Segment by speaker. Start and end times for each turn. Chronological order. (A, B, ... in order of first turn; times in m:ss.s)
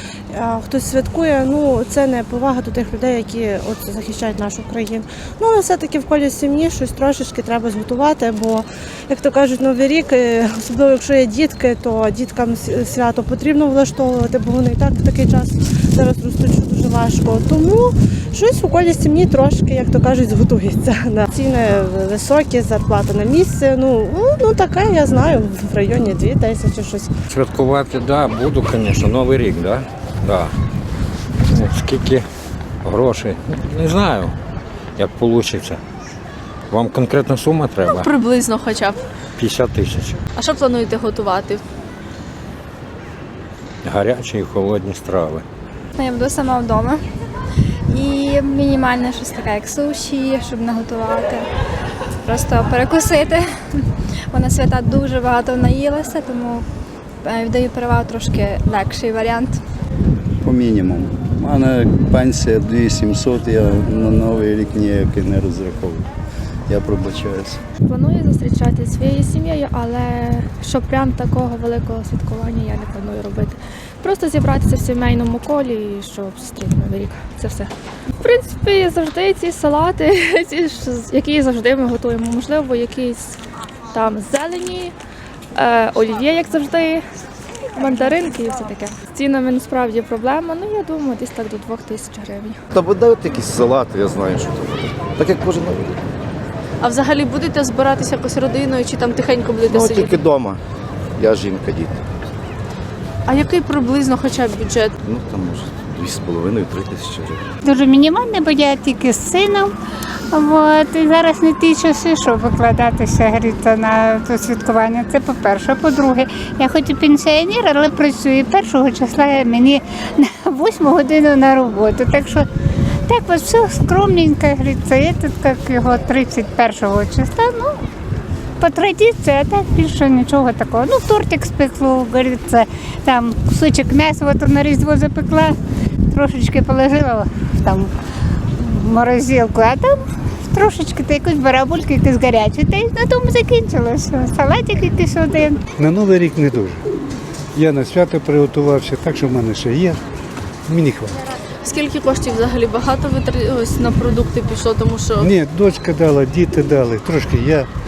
0:00.3-0:27.1 A
0:27.3-0:30.5 B
0:31.5-0:32.2 B
0:32.8-0:34.3 B
0:35.0-0:35.8 B
0:36.7-0:38.1 B
0:38.0-0:39.0 C
0:39.4-0:40.2 B
0:40.4-0:41.6 C
0:43.8-0:45.4 B
0:46.0-0:47.0 D
0:47.9-0:51.5 D
0:52.2-0:53.5 D
0:54.3-0:56.6 D
0:57.2-0:59.6 D
1:00.4-1:06.1 E
1:06.7-1:07.6 E
1:07.8-1:17.7 F
1:18.2-1:23.4 F
1:23.9-1:24.9 F
1:25.6-1:27.0 F
1:27.8-1:32.6 F
1:32.7-1:36.0 G
1:36.8-1:40.1 C
1:39.7-1:40.6 G
1:41.2-1:42.0 G
1:43.3-1:44.9 C
1:45.0-1:47.4 G
1:47.6-1:49.7 H
1:50.3-2:02.5 H
2:03.1-2:07.8 H
2:08.6-2:15.6 H
2:16.1-2:17.9 H
2:18.6-2:25.6 H
2:25.8-2:26.8 I
2:27.6-2:30.0 I
2:30.7-2:31.2 I
2:31.6-2:35.3 C
2:35.2-2:37.7 I